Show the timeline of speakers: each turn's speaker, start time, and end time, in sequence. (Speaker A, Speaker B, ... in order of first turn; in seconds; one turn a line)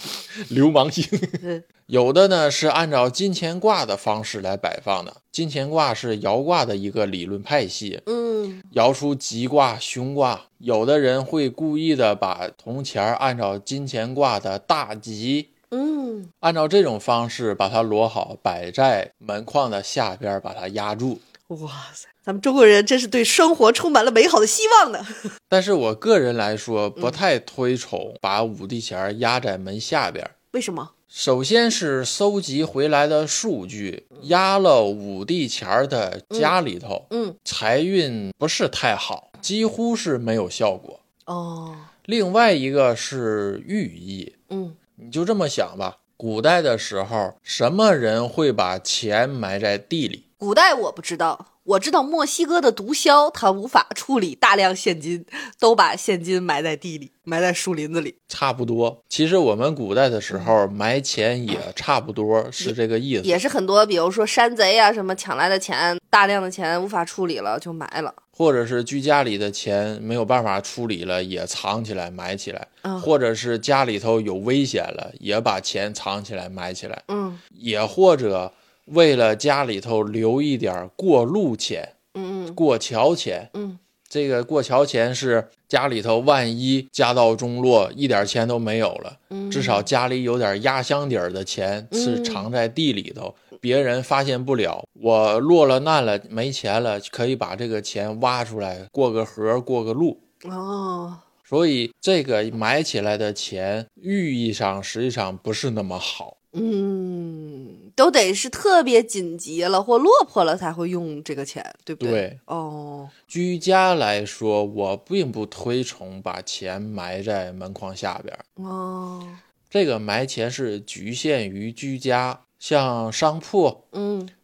Speaker A: 0.3-8.0
Speaker B: 8.1-8.7
Speaker A: 8.7-15.5
Speaker B: 15.7-16.3
Speaker A: 16.4-21.2
Speaker B: 21.5-25.3
Speaker A: 25.5-30.3
Speaker B: 30.5-30.9
Speaker A: 31.1-41.0
Speaker B: 37.1-37.4
Speaker B: 41.3-41.9
Speaker A: 42.0-44.3
Speaker B: 44.5-44.8
Speaker A: 45.0-50.2
Speaker B: 50.4-58.1
Speaker A: 58.3-63.4
Speaker B: 62.6-68.2
Speaker A: 68.3-81.9
Speaker B: 77.1-77.4
Speaker B: 82.1-82.6
Speaker A: 82.5-83.5
Speaker B: 83.5-83.8
Speaker A: 84.1-100.2
Speaker B: 89.3-89.9
Speaker B: 91.9-92.4
Speaker B: 100.4-101.2
Speaker A: 101.5-106.3
Speaker B: 106.5-113.1
Speaker A: 112.0-112.4
Speaker A: 113.3-118.4
Speaker B: 118.6-119.4
Speaker A: 119.7-123.8
Speaker B: 123.9-124.3